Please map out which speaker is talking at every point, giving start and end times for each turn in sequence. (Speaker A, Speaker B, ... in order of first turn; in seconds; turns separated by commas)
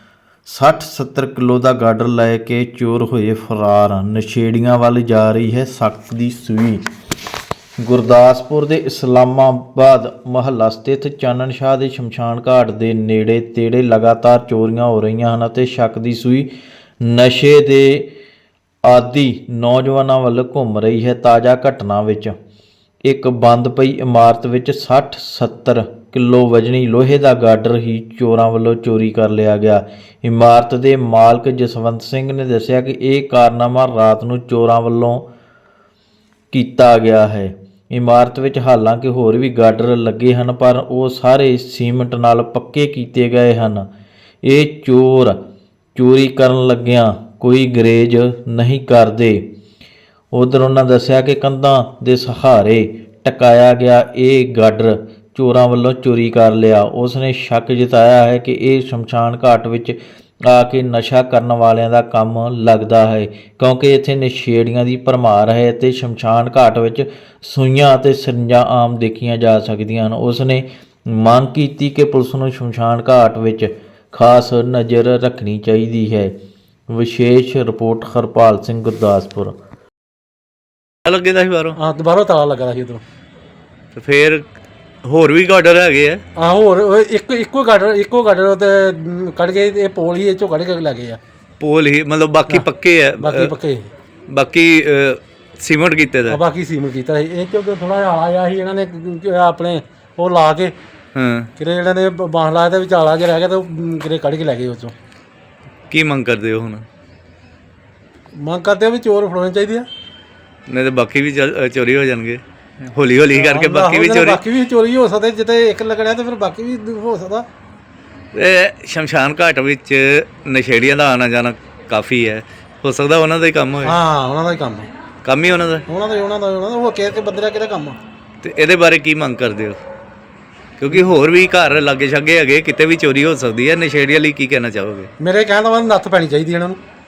Speaker A: 0.5-6.8, Speaker A: 7.8-16.5, Speaker A: 17.0-18.1, Speaker A: 18.9-22.3, Speaker A: 23.0-35.2, Speaker A: 36.5-43.9, Speaker A: 44.4-45.4, Speaker A: 46.0-49.4, Speaker A: 50.3-60.0, Speaker A: 60.5-76.3, Speaker A: 76.9-79.5, Speaker B: 81.0-81.8, Speaker C: 81.8-83.0, Speaker B: 83.9-84.4, Speaker B: 85.0-86.2, Speaker C: 86.3-91.2, Speaker B: 91.6-93.5, Speaker C: 93.2-93.9, Speaker B: 94.3-96.4, Speaker C: 96.3-100.7, Speaker B: 101.1-101.5, Speaker C: 101.6-104.9, Speaker B: 105.9-106.8, Speaker C: 108.4-109.9, Speaker B: 110.7-114.4, Speaker C: 113.3-117.5, Speaker B: 118.3-124.0, Speaker C: 123.8-124.9, Speaker B: 125.2-125.8, Speaker C: 125.9-128.0, Speaker B: 128.4-129.8, Speaker B: 130.8-135.1, Speaker C: 135.2-136.8